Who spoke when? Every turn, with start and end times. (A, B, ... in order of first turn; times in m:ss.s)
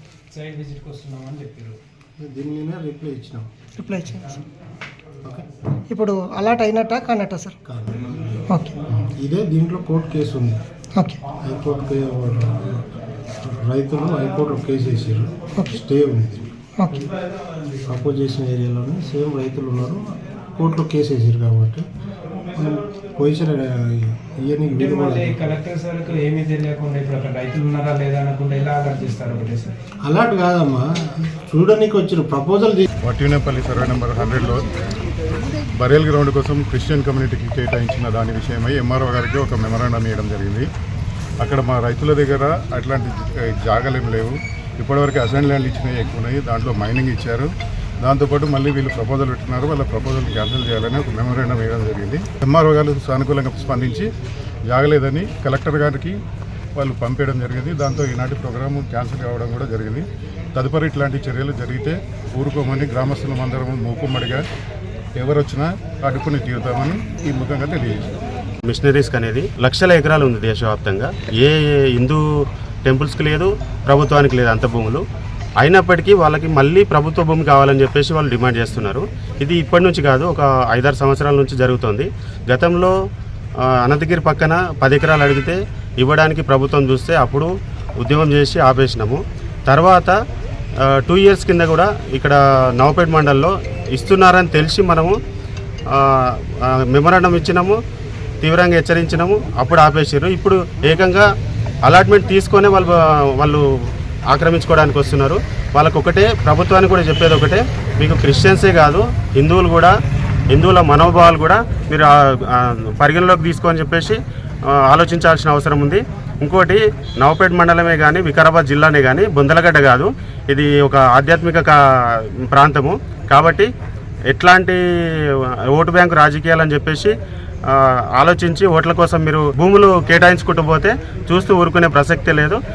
0:00.3-0:01.8 A
0:02.2-0:03.5 B
0:03.8-0:04.4 C
0:05.9-0:07.6 C
0:07.6-0:10.6 B
0:11.0-0:11.2 C
0:11.3-0:12.8 B
0:13.4-0:16.5 B
0:17.8-0:21.9 B
0:22.5-0:25.5 B
0:24.7-0:29.8 A
0:30.0-0:32.8 B
0:33.0-0:34.7 D
0:35.8-0:40.6 D
0:41.4-0:47.5 D
0:48.0-0:54.1 D
0:54.7-0:56.2 D
0:56.8-1:04.4 D
1:05.2-1:08.1 D
1:08.7-1:12.2 E
1:12.8-1:15.0 E
1:15.6-1:22.9 E
1:23.6-1:27.5 E
1:28.0-1:30.1 E
1:30.8-1:35.1 E
1:35.9-1:36.2 E
1:36.9-1:37.8 E
1:38.4-1:41.3 E
1:41.8-1:43.6 E
1:44.3-1:49.9 E
1:50.5-2:01.7 E
2:02.5-2:03.7 E
2:04.3-2:04.8 E
2:05.7-2:07.1 E
2:07.6-2:12.6 E